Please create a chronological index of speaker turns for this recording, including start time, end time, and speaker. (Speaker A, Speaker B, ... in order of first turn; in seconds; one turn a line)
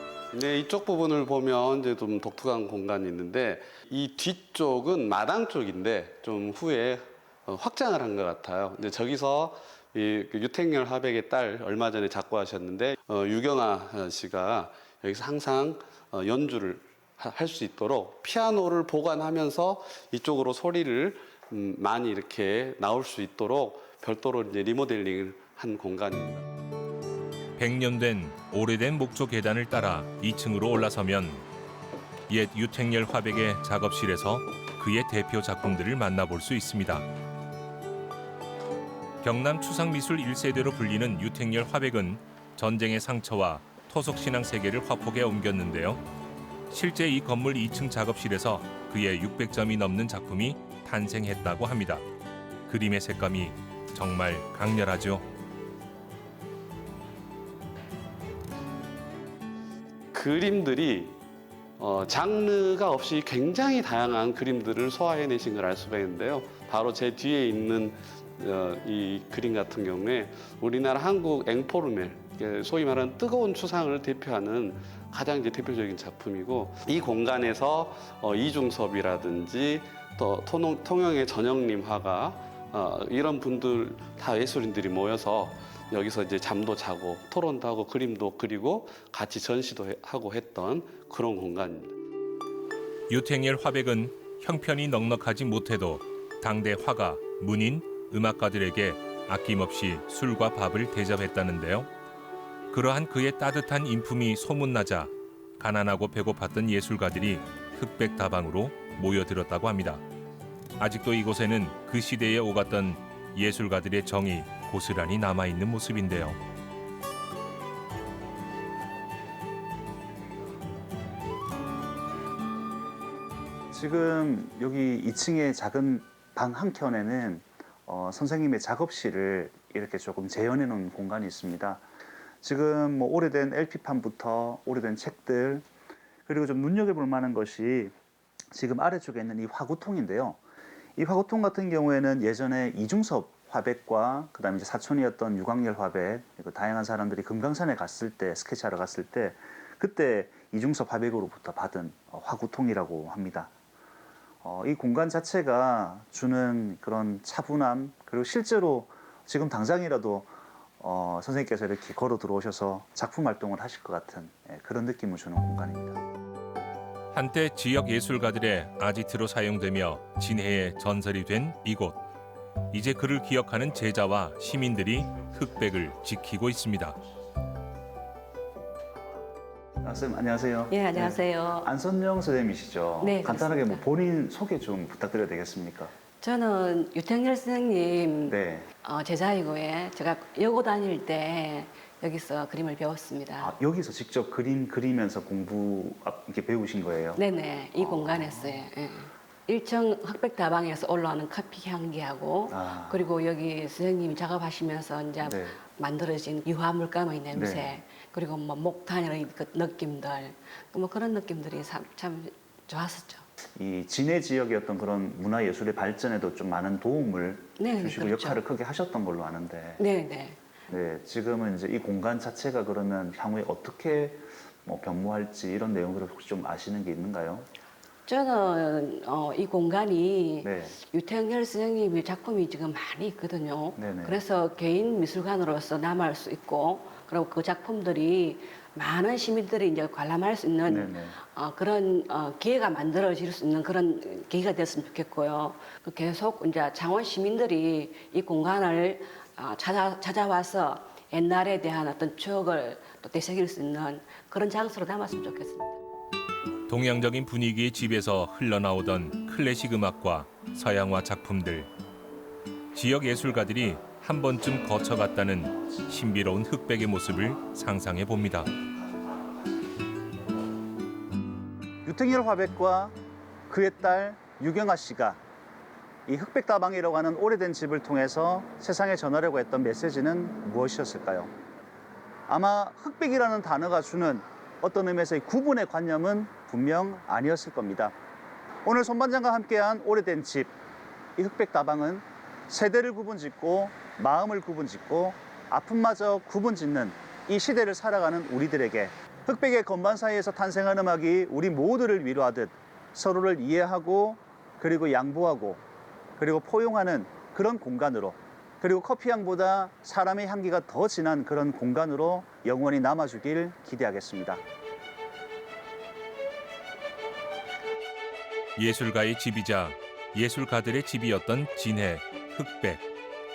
Speaker A: 0.3-26.4
Speaker B: 27.6-31.4
Speaker B: 32.3-37.1
Speaker B: 39.2-46.0
Speaker B: 46.7-52.0
Speaker B: 52.7-55.2
Speaker A: 60.1-61.1
Speaker A: 61.8-91.9
Speaker B: 93.1-101.9
Speaker B: 102.7-110.0
Speaker B: 110.8-116.4
Speaker C: 123.7-131.8
Speaker C: 132.4-135.7
Speaker C: 136.2-137.9
Speaker C: 138.5-140.4
Speaker C: 141.0-153.5
Speaker C: 154.4-166.0
Speaker B: 167.1-172.0
Speaker B: 172.7-177.0
Speaker C: 179.8-185.9
Speaker D: 180.7-181.7
Speaker D: 183.0-183.8
Speaker D: 186.2-193.5
Speaker C: 188.2-188.7
Speaker C: 193.4-197.2
Speaker D: 197.2-213.2
Speaker C: 197.7-198.6
Speaker C: 202.5-203.0
Speaker C: 205.2-205.6
Speaker C: 207.3-207.7
Speaker C: 213.6-219.8
Speaker D: 217.6-218.4
Speaker D: 219.8-220.5
Speaker C: 220.7-227.4
Speaker D: 228.0-255.8
Speaker C: 230.4-230.8
Speaker C: 233.8-234.2
Speaker C: 240.7-241.2
Speaker B: 256.7-261.7
Speaker B: 262.7-268.5
Speaker C: 271.9-272.9
Speaker C: 273.5-275.2
Speaker C: 276.1-281.3
Speaker C: 282.3-287.9
Speaker C: 288.6-290.5
Speaker C: 291.2-305.6
Speaker C: 306.2-314.4
Speaker B: 318.6-322.9